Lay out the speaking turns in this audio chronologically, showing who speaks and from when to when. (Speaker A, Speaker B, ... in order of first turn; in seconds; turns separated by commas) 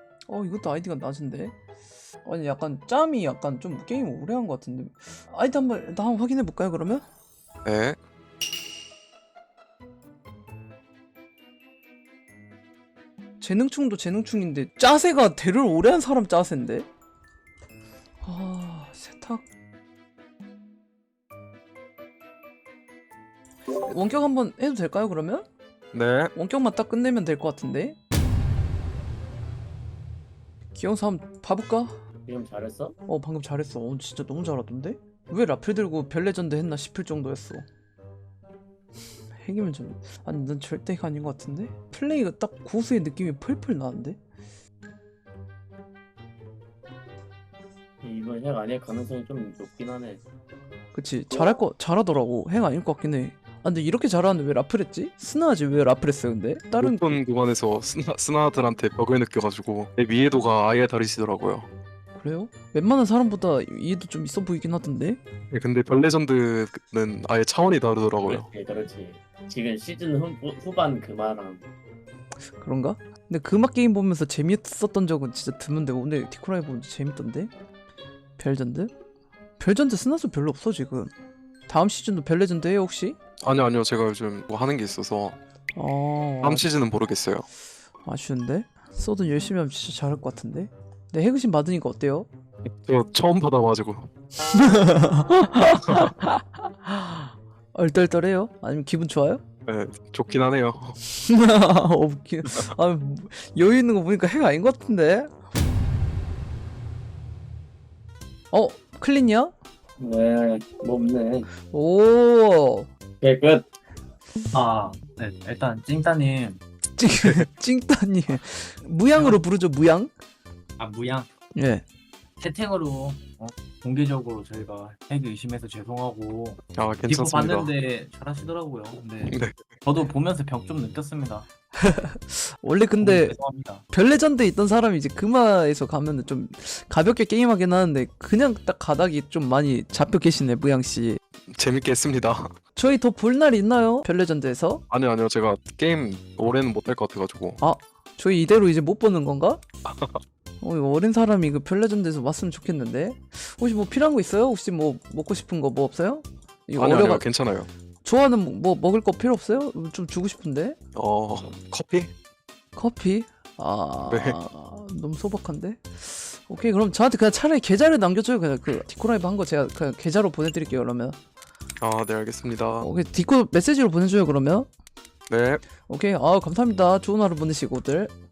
Speaker A: 0.3-1.5, Speaker A: 2.2-7.0, Speaker B: 7.6-8.0, Speaker A: 13.4-16.9, Speaker A: 18.2-19.4, Speaker A: 23.8-25.5, Speaker B: 25.9-26.3, Speaker A: 26.4-28.0, Speaker A: 30.8-31.9, Speaker C: 32.3-33.0, Speaker A: 33.1-37.6, Speaker A: 39.4-44.2, Speaker C: 48.0-50.2, Speaker A: 50.9-57.2, Speaker B: 56.8-61.7, Speaker A: 62.1-65.2, Speaker B: 65.5-68.5, Speaker C: 68.2-71.7, Speaker A: 72.6-77.5, Speaker A: 78.4-78.9, Speaker A: 79.6-81.1, Speaker A: 81.7-83.2, Speaker B: 83.4-85.4, Speaker A: 85.8-86.6, Speaker B: 86.4-87.5, Speaker A: 88.0-92.3, Speaker B: 92.8-94.1, Speaker A: 94.5-99.4, Speaker B: 99.7-101.0, Speaker A: 101.1-105.3, Speaker A: 108.5-109.5, Speaker C: 110.0-111.5, Speaker A: 111.7-112.9, Speaker C: 113.2-113.7, Speaker D: 114.5-116.6, Speaker A: 117.0-120.1, Speaker D: 120.8-121.3, Speaker A: 121.5-121.8, Speaker D: 122.4-131.5, Speaker B: 126.8-127.7, Speaker B: 129.3-129.7, Speaker A: 131.8-133.3, Speaker D: 133.0-133.8, Speaker A: 133.9-141.2, Speaker B: 141.5-142.5, Speaker A: 142.8-144.8, Speaker B: 144.9-147.6, Speaker A: 147.6-149.6, Speaker B: 149.8-150.2, Speaker A: 150.6-157.2, Speaker B: 156.8-157.7, Speaker A: 158.0-160.8, Speaker B: 160.9-162.1, Speaker A: 162.8-171.2, Speaker B: 164.1-164.4, Speaker B: 171.8-172.9, Speaker A: 172.8-174.7, Speaker B: 175.3-175.6, Speaker A: 175.9-178.1